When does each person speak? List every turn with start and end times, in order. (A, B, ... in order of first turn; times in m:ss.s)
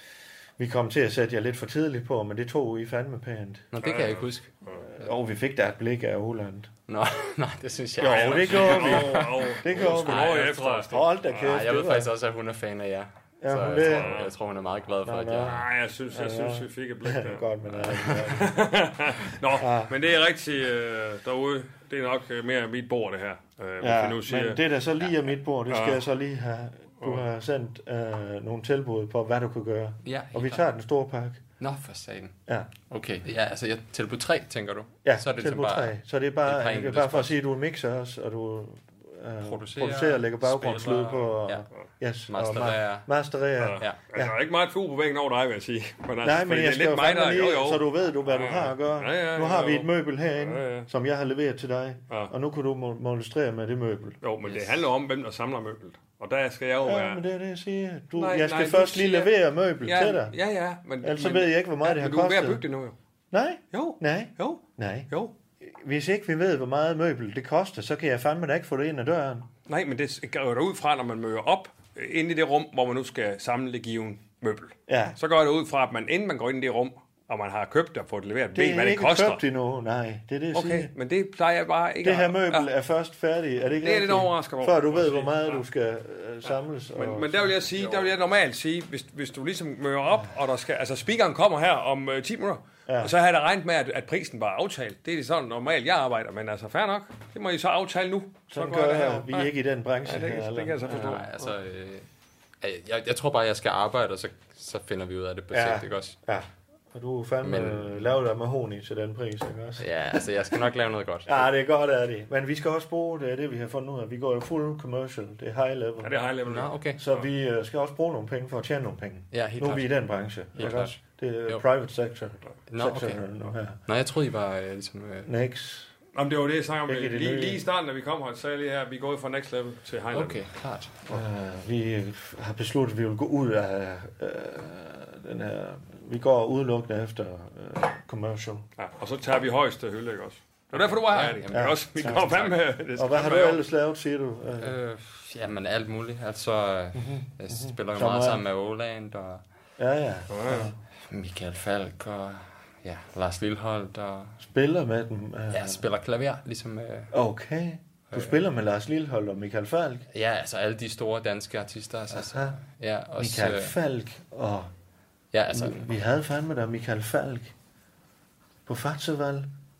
0:00.6-0:03.7 A
0:03.7-0:05.0 B
0:03.8-0:04.8 C
0:04.9-0:06.7 A
0:06.9-0:15.6 B
0:08.0-0:11.4 C
0:08.0-0:12.1 A
0:13.4-0:14.2 A
0:13.7-0:14.3 C
0:15.0-0:18.6 A
0:15.4-0:24.6 C
0:19.6-0:19.9 A
0:23.8-0:31.4 A
0:25.7-0:26.0 C
0:30.0-0:30.6 B
0:31.6-0:32.4 B
0:32.9-0:35.9 B
0:35.0-0:44.3 A
0:36.4-0:37.3 B
0:39.4-0:41.6 B
0:42.3-0:43.1 B
0:43.6-0:50.9 C
0:46.2-0:54.2 A
0:54.2-0:57.2 C
0:54.4-0:54.8 B
0:56.8-1:00.3 A
0:58.2-1:02.9 C
1:01.0-1:02.6 A
1:03.3-1:05.1 A
1:03.7-1:05.3 C
1:05.6-1:09.5 A
1:09.7-1:19.4 C
1:14.9-1:15.2 A
1:18.5-1:20.9 A
1:20.5-1:22.7 C
1:22.0-1:28.1 A
1:23.8-1:25.6 C
1:26.5-1:41.4 C
1:32.9-1:33.1 A
1:38.5-1:41.2 A
1:40.9-1:42.0 B
1:42.6-1:46.2 B
1:45.5-1:49.8 A
1:47.4-1:47.9 B
1:49.8-1:51.5 B
1:51.2-1:56.1 A
1:56.0-1:57.3 C
1:56.4-1:57.0 B
1:57.0-2:03.8 A
1:59.3-1:59.9 B
2:00.5-2:01.7 B
2:02.7-2:03.2 B
2:03.9-2:05.3 B
2:05.2-2:05.9 A
2:06.1-2:10.5 C
2:06.8-2:07.6 A
2:10.1-2:11.0 B
2:11.0-2:18.6 A
2:18.8-2:23.6 C
2:21.0-2:22.5 B
2:21.5-2:24.7 A
2:24.6-2:29.4 B
2:26.9-2:28.4 A
2:29.8-2:30.8 A
2:30.3-2:30.7 C
2:31.1-2:34.4 B
2:34.4-2:35.8 A
2:35.5-2:37.1 B
2:37.1-2:40.0 A
2:38.1-2:38.4 B
2:40.1-2:43.8 B
2:42.1-2:42.6 A
2:43.2-2:44.7 A
2:45.3-2:45.8 B
2:45.5-2:47.5 A
2:48.6-2:49.5 A